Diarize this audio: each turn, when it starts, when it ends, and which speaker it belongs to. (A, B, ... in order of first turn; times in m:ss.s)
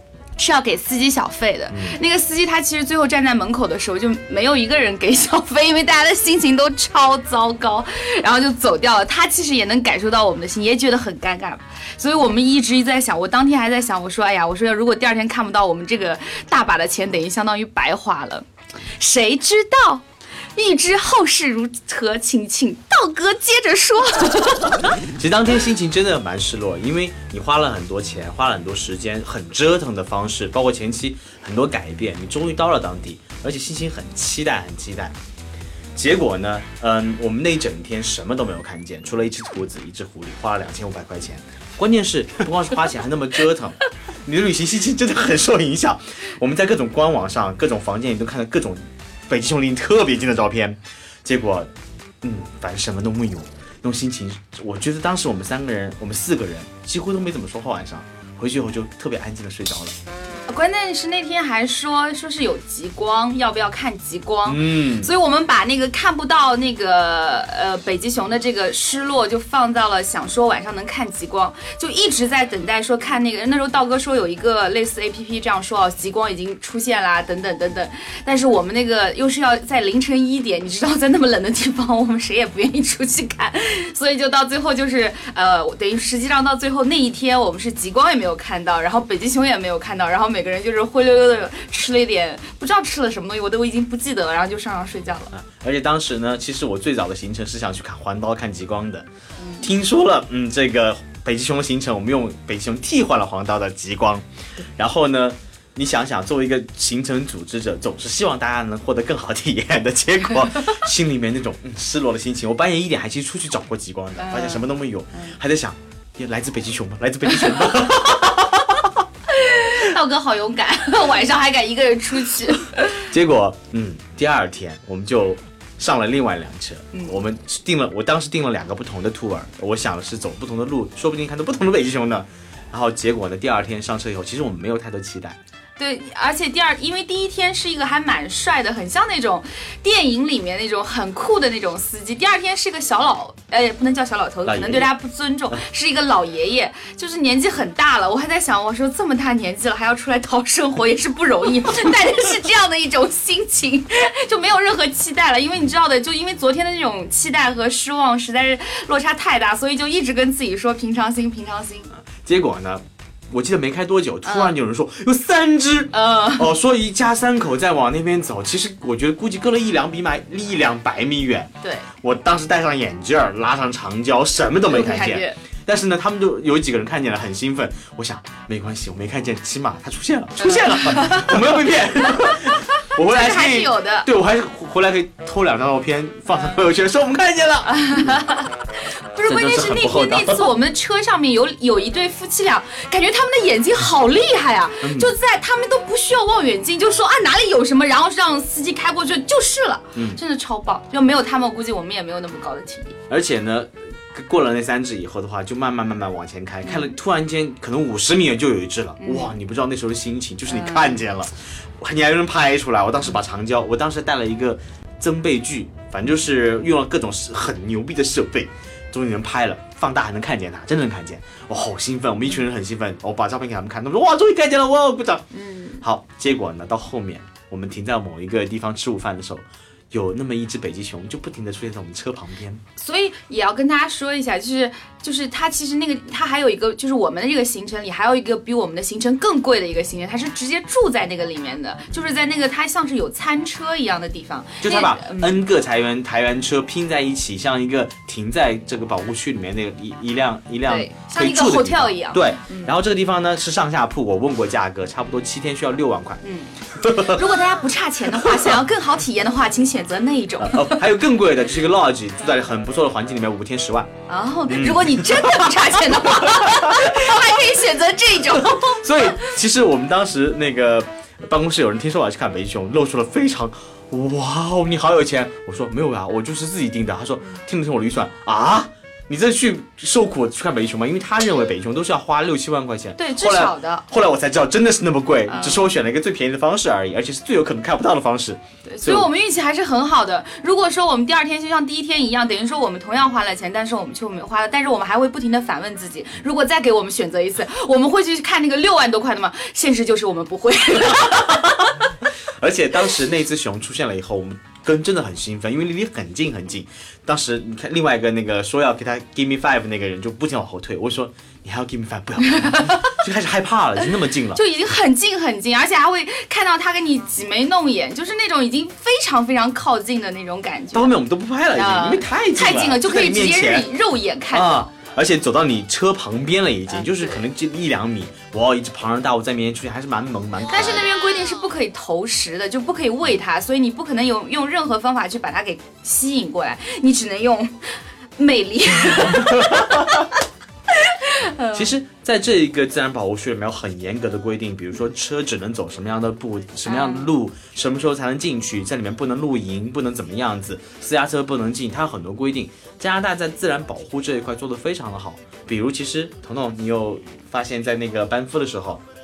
0:00.4-0:20.0 A
0:01.7-0:02.0 B
0:20.6-0:24.9 A
0:24.8-0:35.2 B
0:36.0-0:51.7 B
0:52.2-1:00.0 B
1:00.5-1:35.3 A
1:04.5-1:05.1 B
1:35.3-1:39.1 B
1:39.4-1:39.7 A
1:39.6-1:59.0 B
1:54.2-1:54.6 A
1:59.3-2:03.1 A
2:03.1-2:15.4 B
2:15.8-2:41.9 A
2:24.4-2:24.9 B
2:42.2-3:08.2 B
2:44.3-2:44.6 A
2:45.9-2:46.5 A
2:51.6-2:51.9 A
2:54.7-2:55.4 A
3:00.4-3:01.4 A
3:02.2-3:04.1 A
3:07.8-3:08.5 A
3:09.1-3:23.0 A
3:09.3-3:10.5 B
3:14.8-3:15.1 B
3:20.0-3:20.2 B
3:23.1-3:45.2 B
3:26.6-3:26.9 A
3:29.0-3:29.3 A
3:30.5-3:31.0 A
3:45.3-3:45.8 A
3:45.8-3:52.6 B
3:52.8-4:05.4 A
4:04.6-4:16.2 B
4:10.7-4:12.7 A
4:16.2-4:20.8 A
4:16.8-4:17.2 B
4:18.2-4:18.5 B
4:20.4-4:23.9 B
4:24.1-4:29.1 A
4:24.5-4:27.2 B
4:28.4-4:49.1 B
4:43.0-4:43.9 A
4:45.3-4:45.7 A
4:48.7-5:01.7 A
5:00.9-5:01.6 B
5:02.4-5:14.4 B
5:12.3-5:13.0 A
5:14.3-5:20.9 A
5:20.7-5:23.7 B
5:21.5-5:24.7 A
5:24.3-5:30.9 B
5:30.5-5:40.1 A
5:40.7-5:41.7 A
5:41.5-5:58.8 B
5:46.7-5:47.1 A